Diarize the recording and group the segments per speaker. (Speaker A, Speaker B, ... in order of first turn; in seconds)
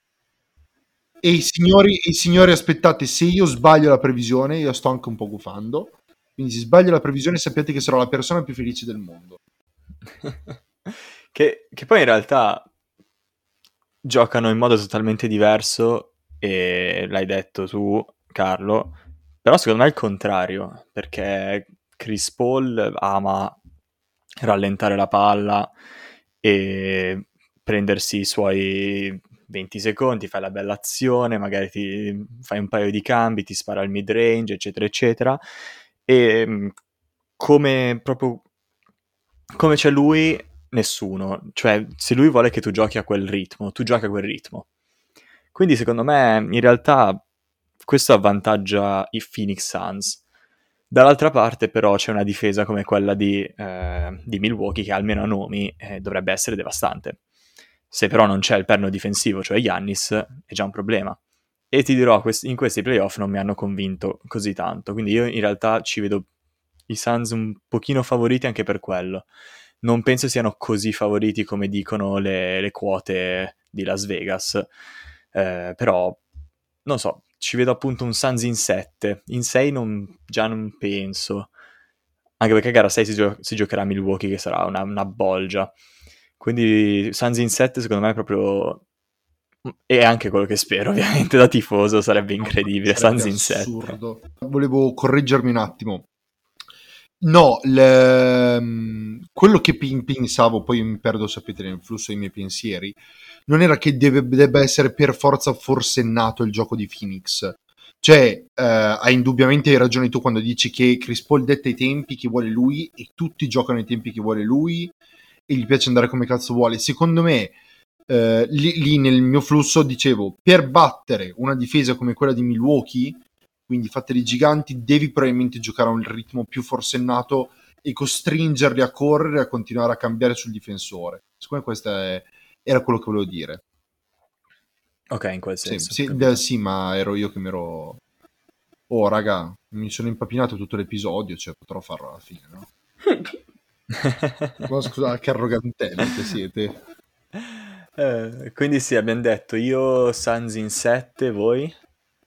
Speaker A: 1.2-9.4, 92.4-96.1, 97.2-114.9, 115.5-117.6, 118.1-133.6, 135.7-138.0, 138.9-142.7, 144.7-146.8
Speaker B: 10.2-12.7, 14.0-23.6, 24.4-25.7, 26.4-35.4, 36.1-36.7, 37.4-38.4, 39.5-44.7, 45.5-47.2, 47.8-50.2, 50.9-57.2, 57.9-61.2, 61.7-66.3, 66.9-69.3, 69.8-74.7, 75.3-76.2, 76.8-81.5, 82.4-85.7, 86.4-88.8, 89.7-94.0, 135.1-136.4, 143.9-144.7, 147.4-151.8